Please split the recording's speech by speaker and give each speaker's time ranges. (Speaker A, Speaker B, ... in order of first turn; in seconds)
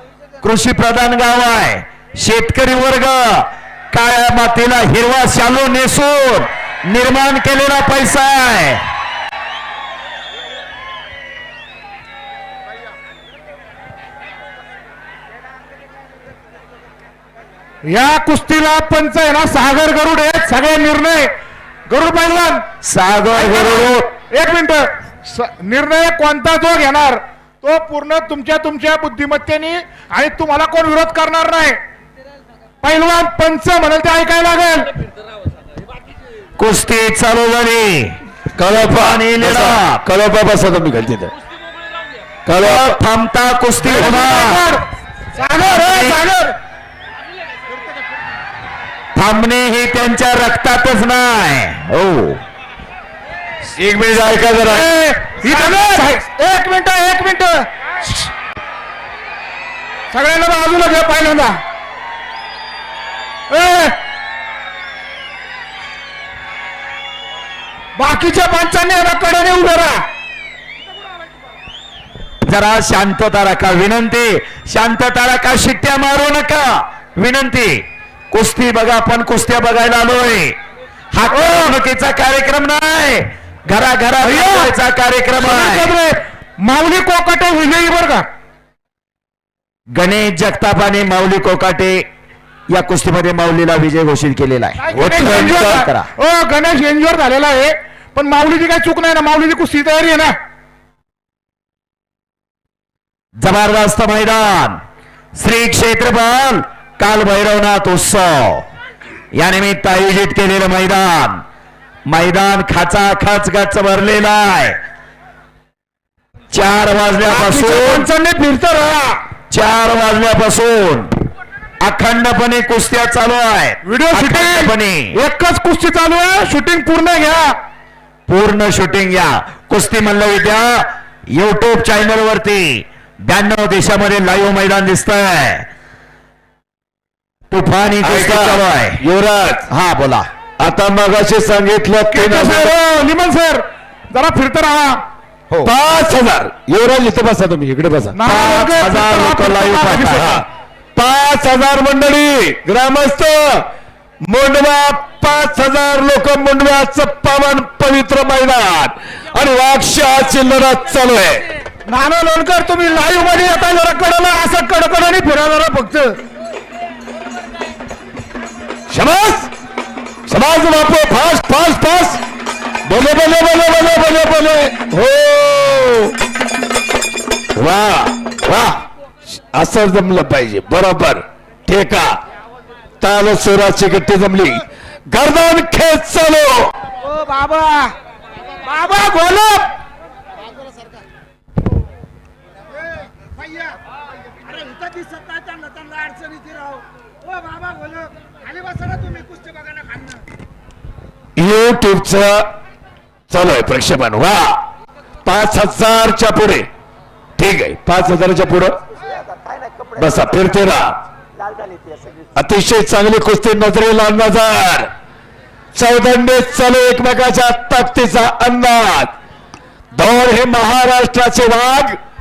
Speaker A: 0.4-8.8, 22.8-24.1, 36.6-38.2, 38.9-40.0, 42.6-44.6, 45.6-46.2, 49.1-52.4, 72.5-80.6, 81.1-86.0, 89.9-92.0, 92.7-96.1, 103.4-104.8, 105.4-108.7, 109.3-111.4, 112.1-114.8, 116.5-118.1, 119.5-121.1, 121.8-125.2, 128.3-135.7, 137.5-139.0, 139.7-140.3, 148.3-150.3, 209.1-210.5, 211.4-212.3
Speaker B: 17.8-21.3, 21.9-22.6, 23.3-31.8, 32.8-35.0, 43.8-46.6, 54.6-58.3, 60.1-61.6, 63.5-64.0, 68.0-70.1, 81.4-81.7, 84.2-84.8, 85.4-88.2, 94.8-100.4, 117.3-119.2, 123.8-127.5, 142.1-145.0, 148.1-150.4, 161.9-166.2, 187.0-187.9, 188.6-189.7
Speaker C: 38.5-41.3, 42.5-43.0, 53.8-54.9, 94.9-95.8, 138.0-139.7, 140.6-142.8, 145.6-148.2, 150.2-150.4, 151.0-153.7, 154.3-161.4, 168.9-169.5, 170.3-172.2, 172.9-176.1, 177.6-178.3, 179.5-182.2, 183.0-186.7, 201.4-202.5, 203.3-204.6, 205.2-206.7, 207.4-208.8, 210.0-211.0, 212.4-214.9, 215.7-219.1, 219.9-222.0